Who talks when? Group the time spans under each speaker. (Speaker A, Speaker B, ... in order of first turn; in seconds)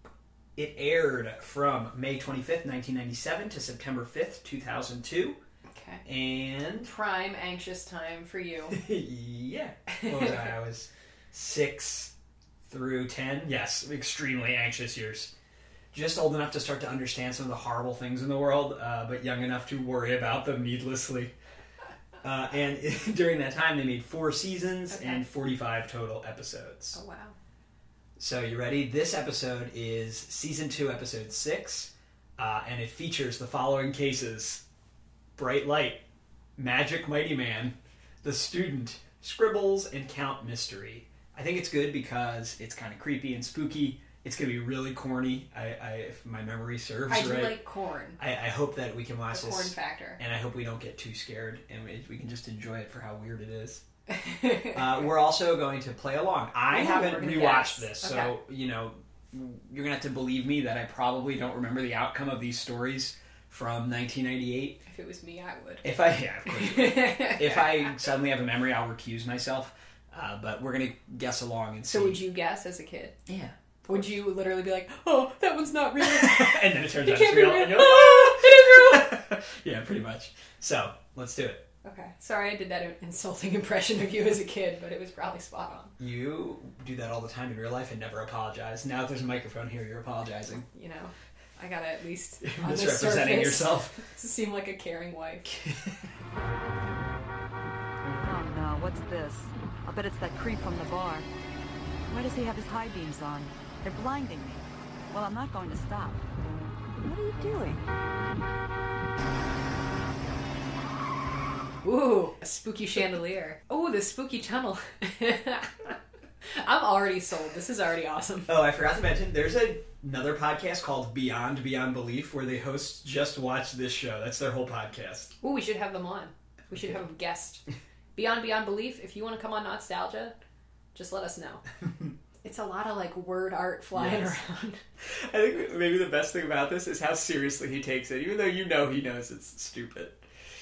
Speaker A: 0.6-5.4, 6.0-6.9, 8.7-15.3, 15.9-21.3, 22.2-27.0, 28.2-34.6, 35.4-36.0, 36.6-47.6, 48.2-53.8, 54.7-64.8, 65.8-72.2, 73.3-74.1, 76.0-81.7, 86.0-90.7, 92.4-94.0, 118.5-125.3, 133.9-134.4, 135.1-140.2
Speaker B: 5.7-6.0, 6.8-8.8, 24.9-25.3, 26.9-27.4, 47.1-48.2, 49.3-50.2, 54.1-55.0, 56.7-58.3, 64.8-65.8, 66.5-68.1, 71.9-73.2, 73.9-79.1, 81.8-85.9, 90.7-95.5, 111.8-115.9, 116.5-118.5, 125.4-127.6, 128.1-130.4, 130.9-131.6, 132.4-134.8
Speaker C: 98.2-101.2, 102.1-104.6, 105.1-106.2, 107.0-107.8